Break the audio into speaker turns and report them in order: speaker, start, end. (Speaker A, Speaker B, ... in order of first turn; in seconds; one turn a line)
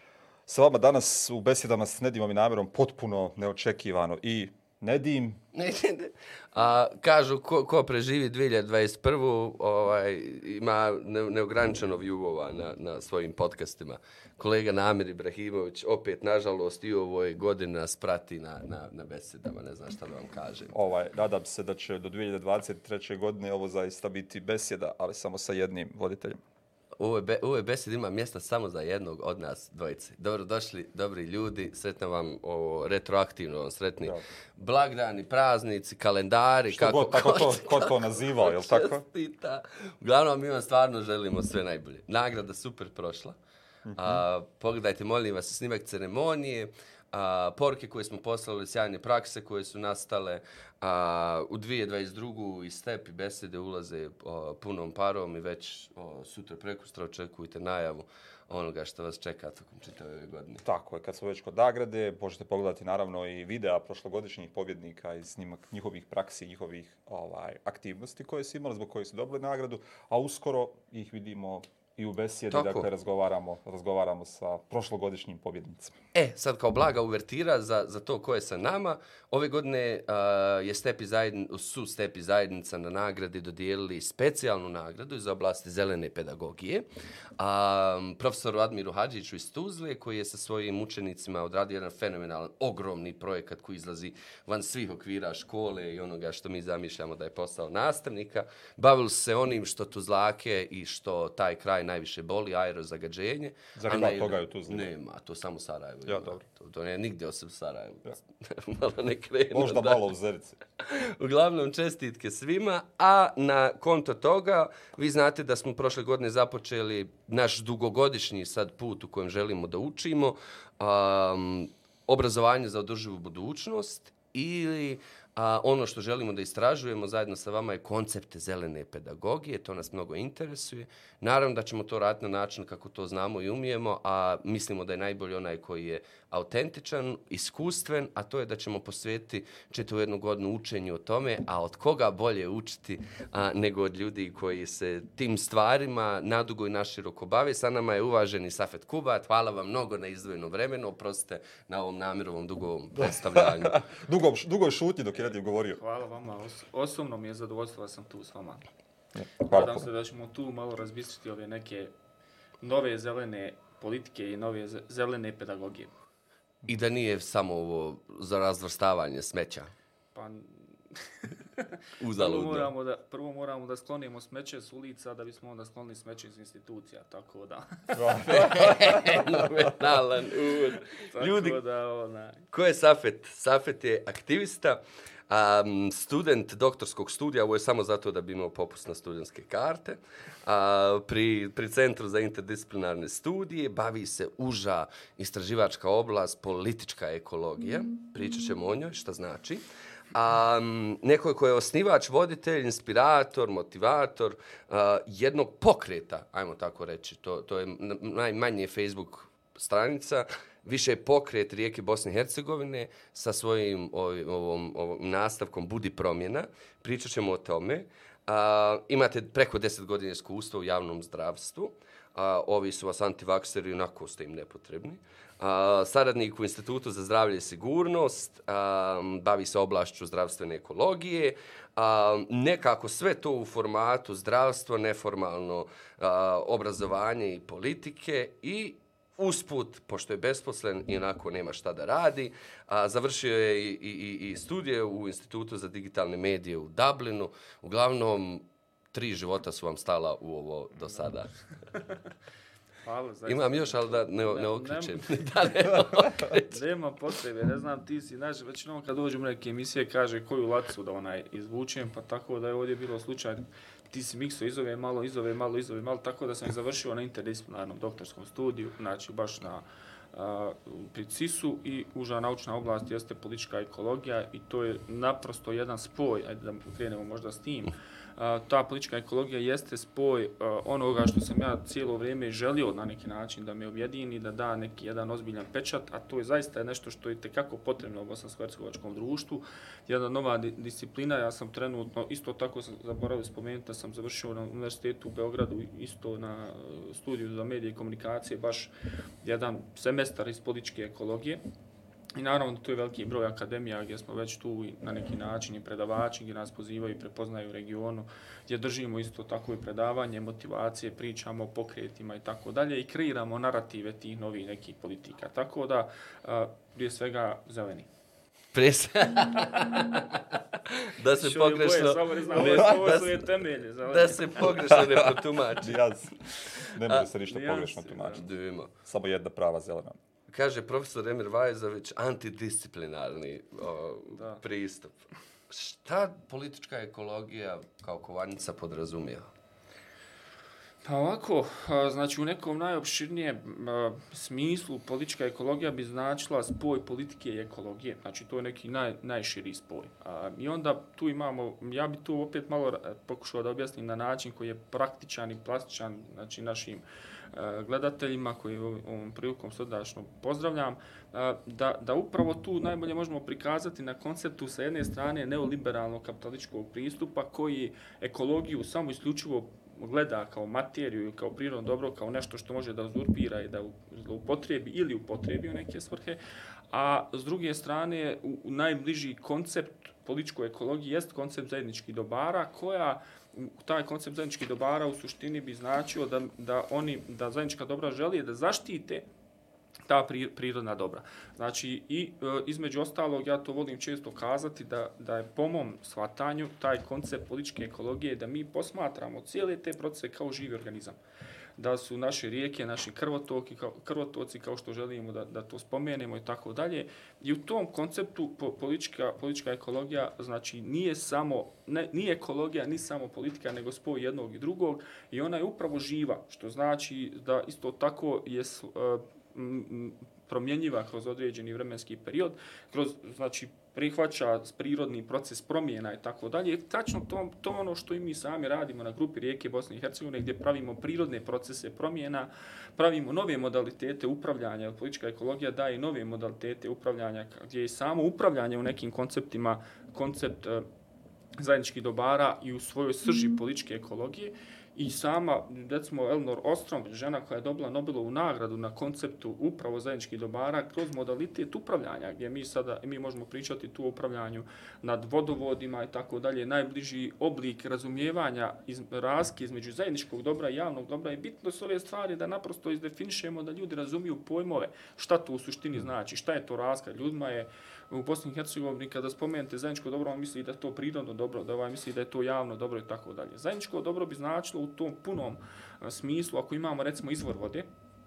Speaker A: 0.5-5.4
Speaker B: 5.5-20.7
Speaker A: 20.7-26.4
Speaker B: 27.0-43.4
Speaker A: 36.7-39.0
Speaker A: 43.9-44.2
Speaker B: 43.9-60.6
Speaker A: 60.6-75.9
Speaker B: 72.5-72.9
Speaker B: 76.1-86.8
Speaker B: 87.4-110.1
Speaker A: 103.8-104.9
Speaker A: 106.0-106.4
Speaker A: 109.5-110.6
Speaker B: 110.8-153.8
Speaker A: 153.0-155.8
Speaker C: 155.7-158.6
Speaker A: 159.1-159.9
Speaker C: 159.4-161.9
Speaker C: 162.6-165.9
Speaker B: 166.7-169.7
Speaker C: 170.1-179.3
Speaker B: 172.0-172.7
Speaker A: 177.9-178.7
Speaker B: 178.2-181.6
Speaker C: 181.0-182.4
Speaker B: 182.5-251.3
Speaker C: 250.8-251.1
Speaker C: 251.7-252.1
Speaker C: 252.8-298.7
Speaker B: 253.3-256.6
Speaker C: 299.2-301.4
Speaker C: 302.1-317.9
Speaker B: 318.5-323.3
Speaker C: 321.1-324.9
Speaker B: 323.9-325.8
Speaker A: 324.7-328.3
Speaker C: 326.4-326.7
Speaker C: 327.2-328.2
Speaker B: 328.1-328.7
Speaker A: 328.8-330.0
Speaker B: 330.3-335.0
Speaker C: 334.1-334.4
Speaker B: 335.5-339.3
Speaker C: 340.8-376.2
Speaker C: 376.7-389.1
Speaker C: 389.9-401.0
Speaker C: 401.6-440.6
Speaker C: 441.4-477.7